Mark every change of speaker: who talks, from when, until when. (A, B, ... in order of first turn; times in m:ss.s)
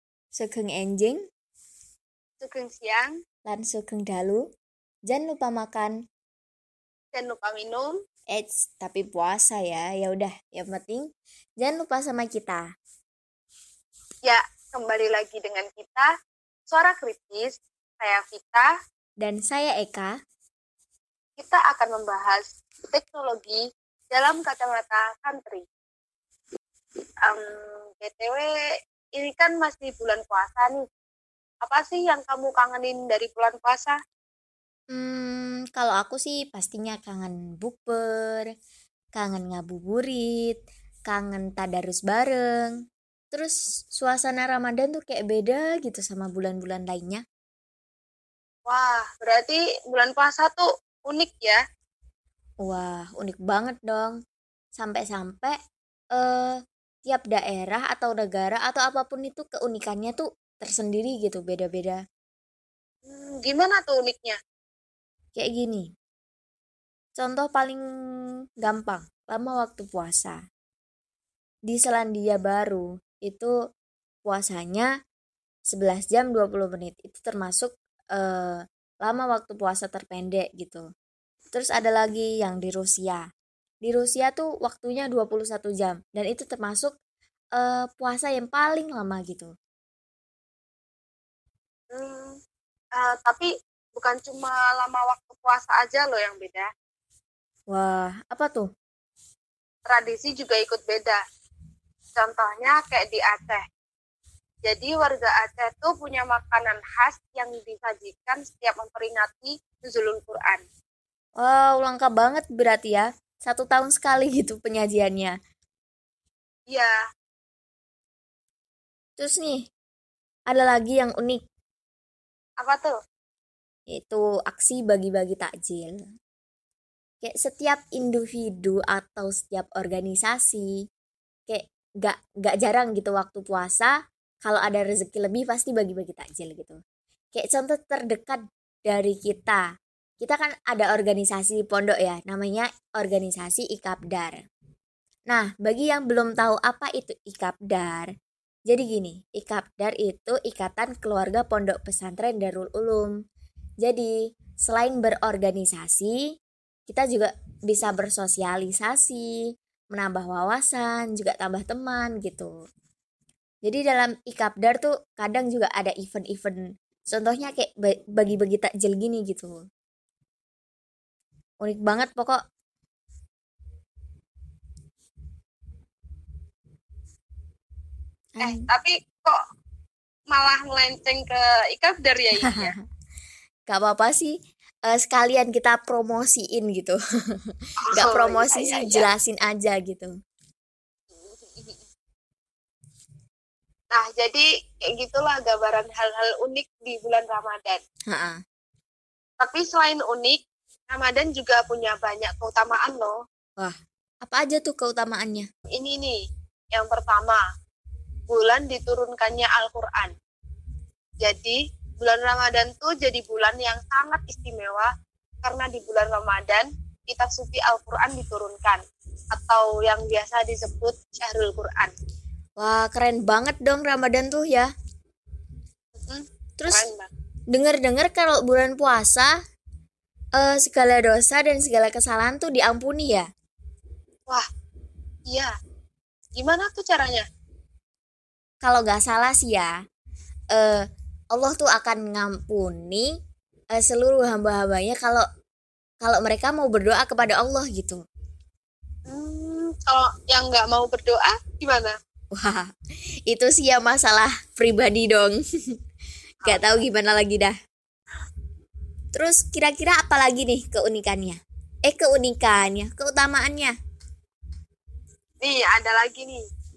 0:00.4-0:01.2 A
0:02.4-0:03.2 B
0:03.4-0:04.4 A
0:05.1-0:05.9 A
0:07.1-0:08.0 B
0:08.3-0:11.1 A
0:11.6-0:12.6 A
0:14.2-0:16.1 B
0:16.7-0:18.7 B
0:19.2-0:20.1 A
0:21.4-0:23.6 B
0:24.1-0:25.6 B
0:27.2-0:28.5 B
0:29.1-0:30.8 B
0:31.6-0:34.0 B
0:34.9-0:38.5 A
0:39.1-0:42.8 A
0:43.3-0:47.2 A
0:48.7-0:51.6 B
0:52.6-0:54.2 A
0:54.8-0:55.6 A
0:56.1-1:02.0 A
1:03.1-1:04.4 B
1:05.4-1:05.9 A
1:07.2-1:07.8 A
1:08.6-1:10.4 A
1:11.7-1:13.5 A
1:14.2-1:14.9 A
1:15.7-1:20.8 A
1:21.5-1:23.2 A
1:23.8-1:26.9 A
1:27.6-1:29.5 A
1:31.9-1:32.4 B
1:33.0-1:36.7 B
1:37.7-1:38.7 A
1:39.9-1:41.2 B
1:42.2-1:43.6 B
1:44.6-1:50.6 B
1:51.4-1:55.3 A
1:59.2-1:59.7 A
2:00.5-2:01.4 A
2:02.6-2:03.0 B
2:03.9-2:06.0 A
2:07.2-2:10.7 A
2:11.5-2:13.9 A
2:14.4-2:16.8 A
2:17.3-2:19.6 A
2:20.2-2:24.4 A
2:25.3-2:28.1 A
2:28.7-2:33.1 A
2:33.8-2:36.2 A
2:36.9-2:39.4 A
2:39.9-2:42.5 A
2:43.6-2:49.6 A
2:51.6-2:52.4 A
2:58.4-2:58.7 A
2:58.4-2:59.4 B
3:00.3-3:02.7 B
3:02.4-3:02.7 A
3:03.7-3:04.3 A
3:04.9-3:10.1 A
3:07.9-3:09.1 B
3:11.1-3:11.8 B
3:13.9-3:17.8 B
3:18.1-3:18.4 A
3:19.4-3:20.4 B
3:20.9-3:23.2 B
3:23.6-3:25.5 A
3:25.7-3:26.2 B
3:26.7-3:27.4 B
3:28.3-3:30.1 B
3:31.2-3:34.9 B
3:35.4-3:38.8 B
3:39.3-3:41.9 B
3:42.6-3:44.7 A
3:46.0-3:47.1 B
3:46.6-3:46.9 A
3:47.5-3:49.3 A
3:50.4-3:53.3 A
3:56.3-3:57.2 B
3:58.6-3:59.7 A
4:00.5-4:03.1 A
4:03.8-4:05.2 A
4:06.0-4:08.0 A
4:09.1-4:11.9 B
4:12.3-4:12.7 A
4:13.3-4:15.4 A
4:16.4-4:16.8 B
4:16.4-4:17.6 A
4:19.1-4:23.7 A
4:25.4-4:26.4 B